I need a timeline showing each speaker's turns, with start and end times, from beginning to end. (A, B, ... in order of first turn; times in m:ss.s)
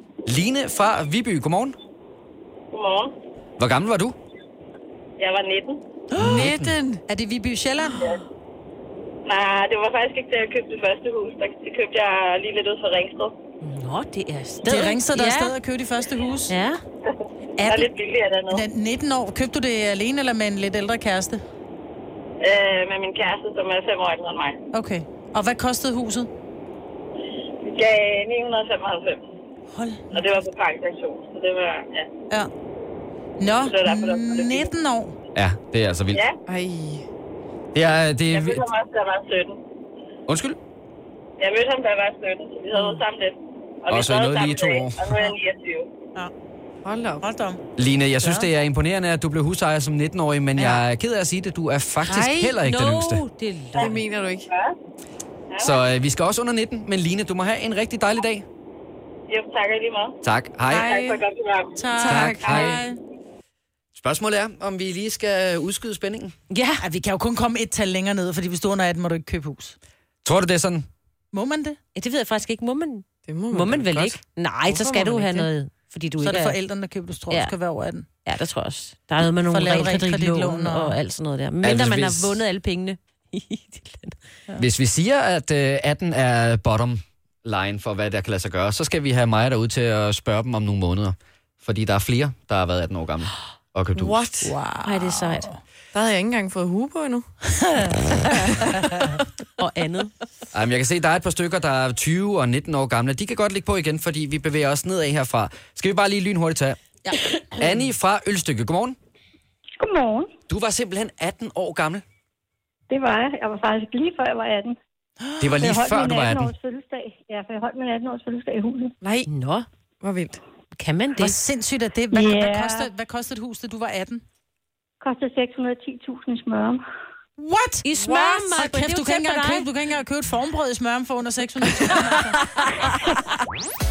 0:00.3-0:01.8 A
0:02.7-0:03.2 B
0:03.6-0:04.2 A
0:05.2-0:05.8 B
0:06.1-0:08.2 C
0:06.2-0:06.7 A
0:06.3-0:07.0 D
0:09.2-0:13.4 B
0:13.6-0:15.6 E
0:14.7-0:16.6 C
0:16.5-0:16.8 E
0:17.1-0:18.7 B
0:17.6-0:17.9 C
0:18.5-0:21.4 C
0:22.4-0:24.6 B
0:24.7-0:26.3 C
0:27.6-0:29.2 B
0:29.7-0:30.2 C
0:30.1-0:32.1 B
0:33.4-0:35.2 C
0:33.6-0:34.7 B
0:35.3-0:36.2 A
0:36.1-0:36.4 B
0:36.5-0:37.0 D
0:37.7-0:38.6 A
0:38.3-0:39.6 B
0:40.3-0:40.6 A
0:41.4-0:45.9 B
0:43.9-0:45.1 A
0:46.8-0:47.2 D
0:47.2-0:47.6 C
0:47.8-0:53.2 A
0:48.2-0:48.5 C
0:50.6-0:50.8 C
0:52.1-0:54.0 E
0:52.1-0:52.5 D
0:53.7-0:54.8 B
0:53.8-0:54.5 D
0:55.5-0:55.8 B
0:55.6-0:58.4 A
0:59.3-1:02.7 B
1:00.2-1:00.9 A
1:00.7-1:01.2 D
1:01.8-1:03.0 C
1:02.0-1:02.8 D
1:02.1-1:02.8 A
1:04.0-1:06.3 A
1:06.5-1:06.8 E
1:06.8-1:09.8 C
1:10.2-1:10.8 A
1:11.3-1:11.8 C
1:12.0-1:16.6 E
1:13.3-1:14.2 D
1:14.7-1:15.5 C
1:16.2-1:18.0 C
1:17.3-1:17.5 E
1:18.2-1:24.2 E
1:19.3-1:21.0 C
1:21.6-1:22.4 A
1:24.6-1:34.2 A
1:34.0-1:34.5 D
1:34.4-1:35.6 C
1:34.8-1:35.5 E
1:35.9-1:37.3 D
1:37.6-1:38.1 C
1:39.6-1:40.1 E
1:40.5-1:46.8 A
1:47.0-1:47.4 C
1:47.5-1:49.0 A
1:49.8-1:50.3 F
1:50.5-1:52.0 A
1:52.9-1:54.8 F
1:55.4-1:56.5 A
1:55.5-1:58.9 F
1:59.0-1:59.3 D
1:59.3-1:59.7 E
2:00.0-2:00.4 D
2:00.7-2:01.4 E
2:01.2-2:04.2 C
2:02.1-2:02.9 F
2:05.0-2:06.8 F
2:07.4-2:13.0 C
2:07.8-2:09.7 E